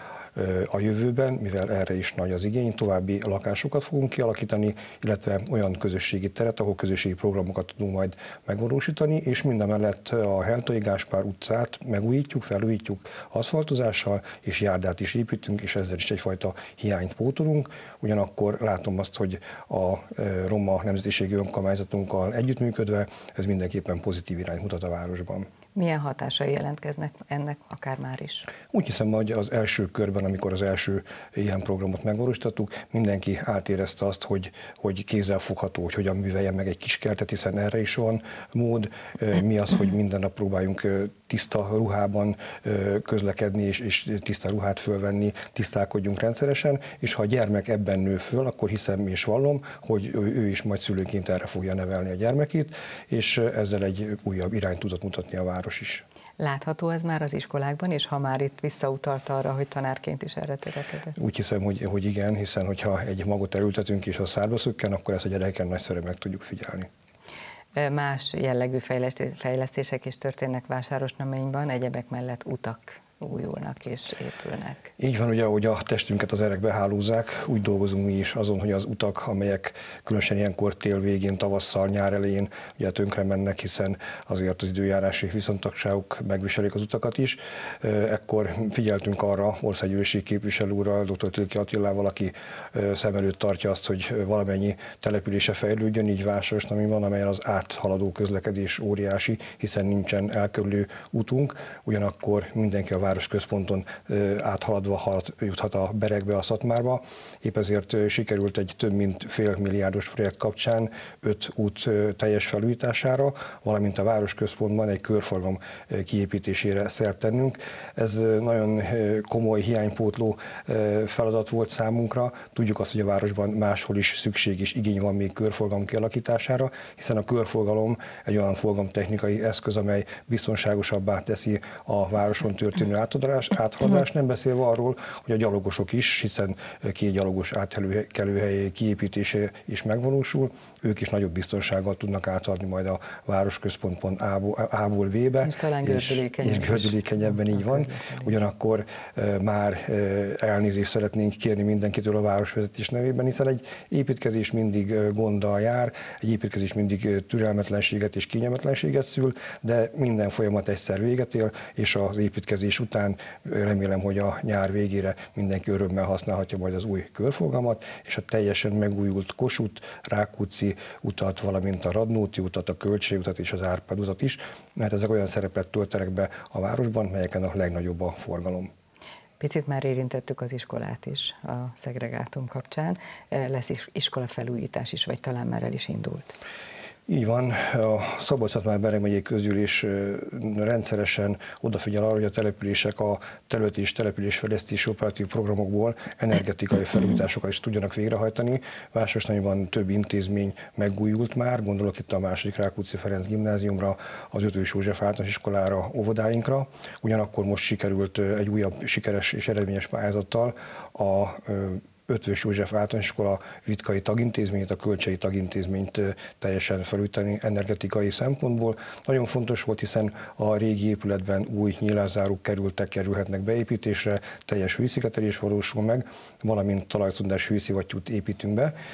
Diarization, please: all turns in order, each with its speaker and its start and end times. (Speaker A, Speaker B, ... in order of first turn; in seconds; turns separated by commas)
Speaker A: 0.3-25.5, Speaker B: 25.8-28.5, Speaker A: 28.7-56.0, Speaker B: 56.4-61.1, Speaker A: 61.2-66.9, Speaker B: 67.8-74.9, Speaker A: 75.0-178.7, Speaker B: 145.4-148.3, Speaker B: 179.4-186.4, Speaker A: 187.1-228.8